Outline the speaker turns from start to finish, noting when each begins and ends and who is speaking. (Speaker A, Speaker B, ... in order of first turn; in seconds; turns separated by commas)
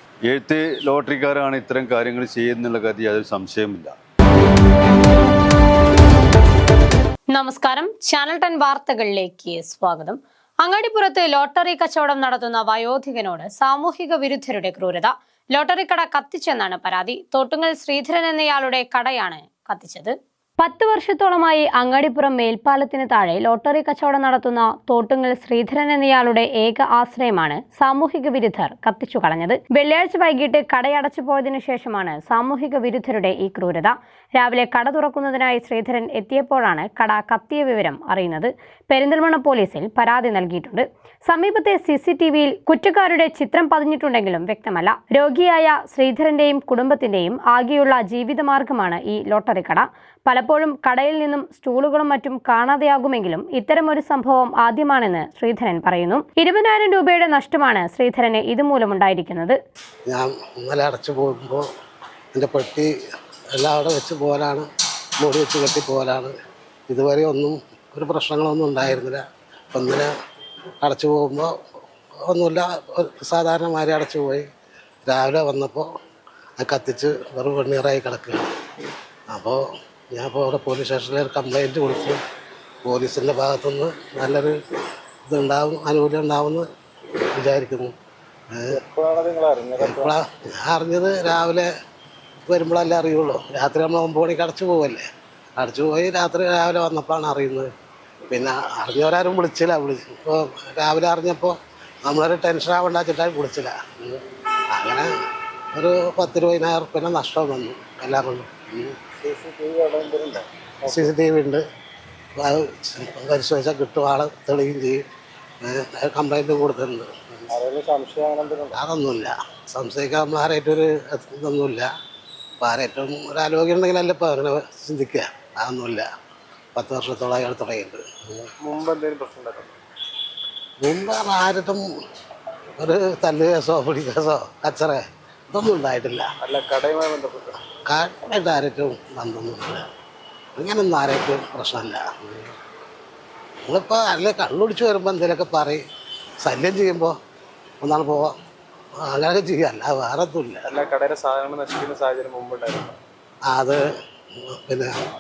Speaker A: 0.2-3.9, Speaker B: 7.3-59.6, Speaker C: 60.1-61.6, Speaker C: 62.3-62.9, Speaker C: 63.5-64.7, Speaker C: 65.2-66.3, Speaker C: 66.9-70.1, Speaker C: 70.8-71.5, Speaker C: 72.2-74.5, Speaker C: 75.0-75.9, Speaker C: 76.6-78.5, Speaker C: 79.3-82.2, Speaker C: 82.8-84.5, Speaker C: 85.3-86.7, Speaker C: 87.3-87.9, Speaker C: 88.5-88.8, Speaker D: 88.8-90.1, Speaker C: 89.8-91.7, Speaker C: 92.5-97.7, Speaker C: 98.3-105.1, Speaker C: 105.7-108.9, Speaker D: 109.2-111.1, Speaker C: 110.8-111.6, Speaker C: 112.3-115.0, Speaker C: 115.6-117.5, Speaker D: 117.5-118.7, Speaker C: 118.7-121.9, Speaker C: 122.6-126.1, Speaker C: 126.7-128.5, Speaker D: 128.6-129.7, Speaker C: 130.8-131.8, Speaker C: 132.8-136.3, Speaker D: 136.4-137.6, Speaker C: 137.8-139.8, Speaker C: 140.6-142.5, Speaker C: 143.7-145.8, Speaker C: 146.4-147.2, Speaker C: 147.8-148.3, Speaker C: 149.0-150.7, Speaker D: 150.7-153.0, Speaker C: 153.4-153.8, Speaker C: 154.4-154.9